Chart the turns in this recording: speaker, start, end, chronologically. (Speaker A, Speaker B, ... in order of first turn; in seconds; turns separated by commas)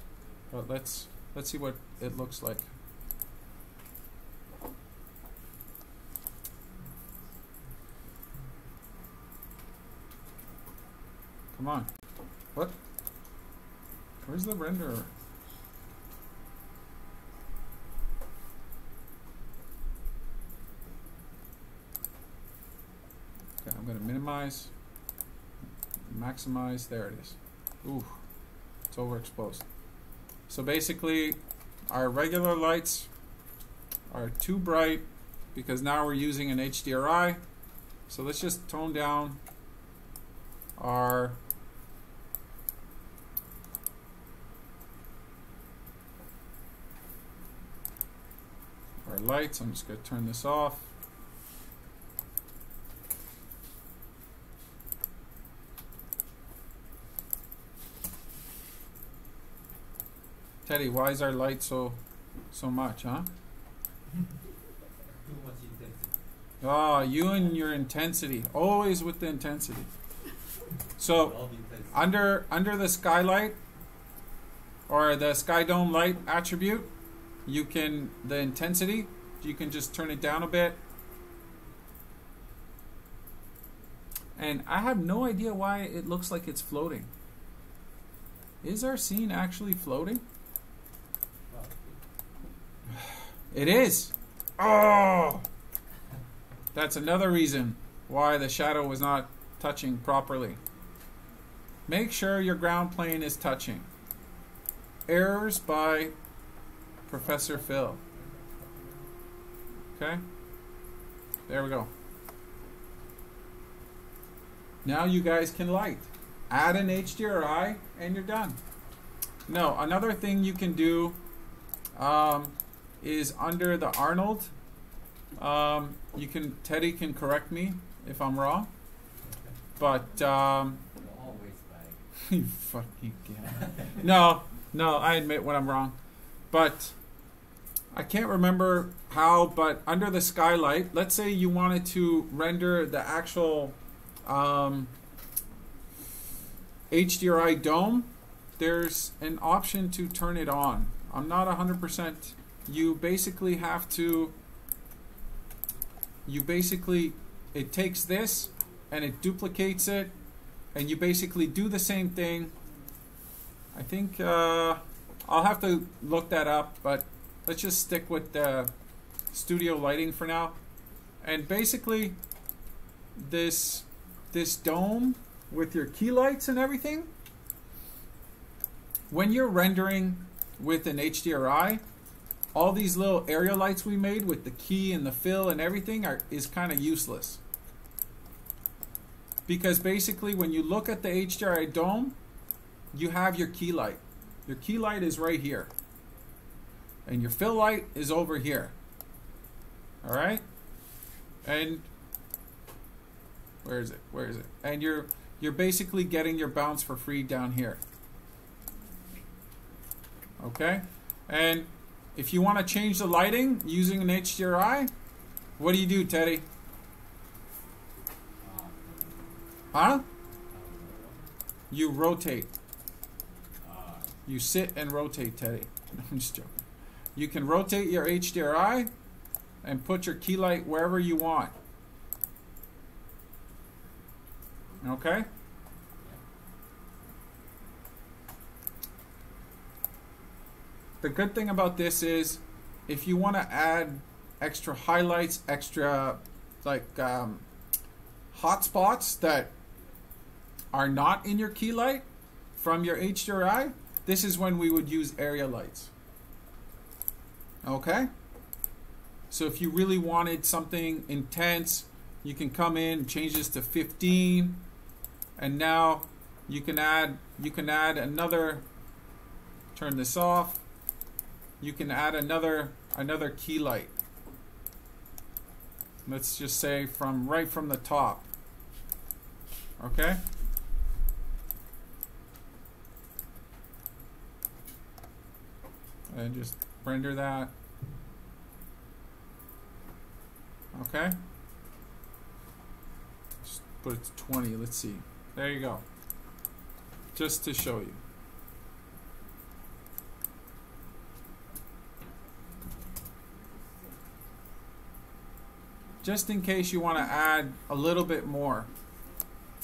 Speaker A: 0.5-2.6, Speaker A: 11.5-11.9, Speaker A: 14.2-15.1, Speaker A: 23.6-24.7, Speaker A: 26.1-28.2, Speaker A: 28.9-29.6, Speaker A: 30.5-33.1, Speaker A: 34.1-37.4, Speaker A: 38.1-39.4, Speaker A: 40.8-41.4, Speaker A: 49.0-50.9, Speaker A: 60.7-62.0, Speaker A: 62.5-63.3, Speaker B: 65.2-66.2, Speaker A: 66.6-69.9, Speaker A: 71.0-71.4, Speaker B: 71.1-72.0, Speaker A: 71.9-73.6, Speaker A: 74.9-76.9, Speaker A: 77.5-80.8, Speaker A: 84.4-87.1, Speaker A: 88.6-90.2, Speaker B: 91.5-92.0, Speaker A: 93.5-95.5, Speaker A: 96.7-100.6, Speaker A: 101.9-103.9, Speaker A: 105.1-106.2, Speaker A: 107.1-108.0, Speaker B: 108.0-109.1, Speaker A: 110.0-110.2, Speaker A: 111.5-111.9, Speaker A: 114.8-118.6, Speaker A: 119.5-121.2, Speaker A: 121.9-124.5, Speaker A: 125.4-128.7, Speaker A: 129.8-130.8, Speaker B: 131.0-132.0, Speaker A: 132.2-136.0, Speaker B: 133.5-134.0, Speaker A: 136.5-137.0, Speaker A: 137.9-144.9, Speaker A: 146.9-154.3, Speaker A: 156.3-160.1, Speaker A: 160.7-162.5, Speaker A: 163.7-168.7, Speaker A: 169.3-170.6, Speaker A: 171.2-172.2, Speaker A: 173.2-177.1, Speaker A: 179.1-181.8, Speaker A: 182.5-187.4, Speaker A: 189.5-192.2, Speaker A: 192.9-195.7, Speaker A: 197.1-198.7, Speaker A: 200.0-200.4, Speaker A: 201.4-201.9, Speaker A: 203.6-207.8, Speaker A: 210.4-214.9, Speaker A: 215.6-216.5, Speaker B: 218.4-219.3, Speaker A: 219.7-220.1, Speaker B: 220.5-221.3, Speaker A: 221.7-222.5, Speaker B: 223.5-224.1, Speaker A: 224.3-226.7, Speaker A: 227.2-228.9, Speaker A: 229.6-231.6, Speaker A: 234.8-235.3, Speaker A: 241.0-247.5, Speaker A: 248.3-249.5, Speaker A: 250.7-252.0, Speaker A: 252.6-255.9, Speaker A: 257.6-258.1, Speaker A: 259.3-264.6, Speaker A: 265.4-268.6, Speaker A: 269.8-270.6, Speaker A: 271.6-273.9, Speaker A: 276.1-278.3, Speaker A: 279.8-280.2, Speaker A: 286.1-287.5, Speaker A: 290.7-291.2, Speaker A: 293.4-295.8, Speaker A: 297.1-298.0, Speaker A: 306.0-308.7